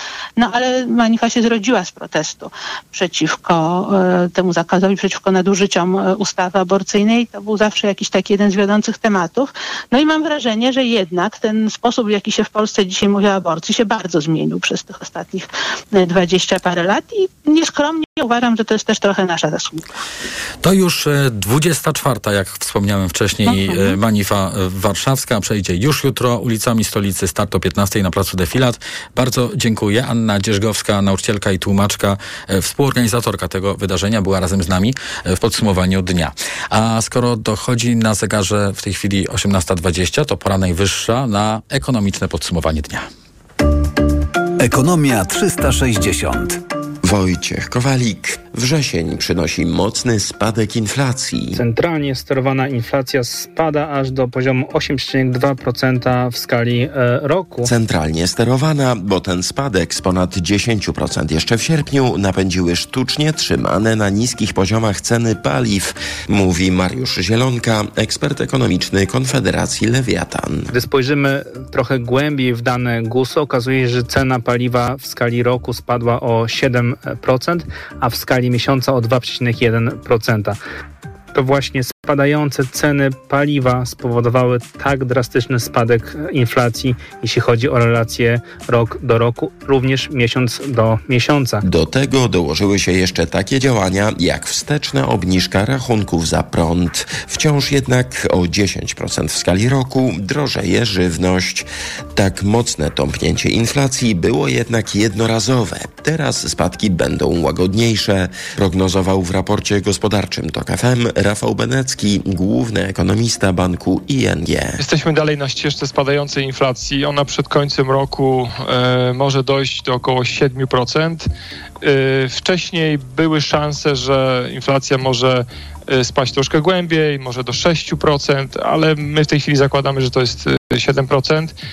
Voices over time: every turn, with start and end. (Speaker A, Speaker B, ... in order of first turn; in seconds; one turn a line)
Speaker A: 0.4-19.8
Speaker B: 20.6-43.1
Speaker A: 23.5-23.9
Speaker C: 44.6-46.6
Speaker D: 47.0-51.6
Speaker E: 51.5-57.7
Speaker D: 57.6-70.7
Speaker E: 70.7-80.6
Speaker E: 81.3-91.6
Speaker D: 91.6-114.8
Speaker F: 114.8-121.3
Speaker F: 121.8-131.5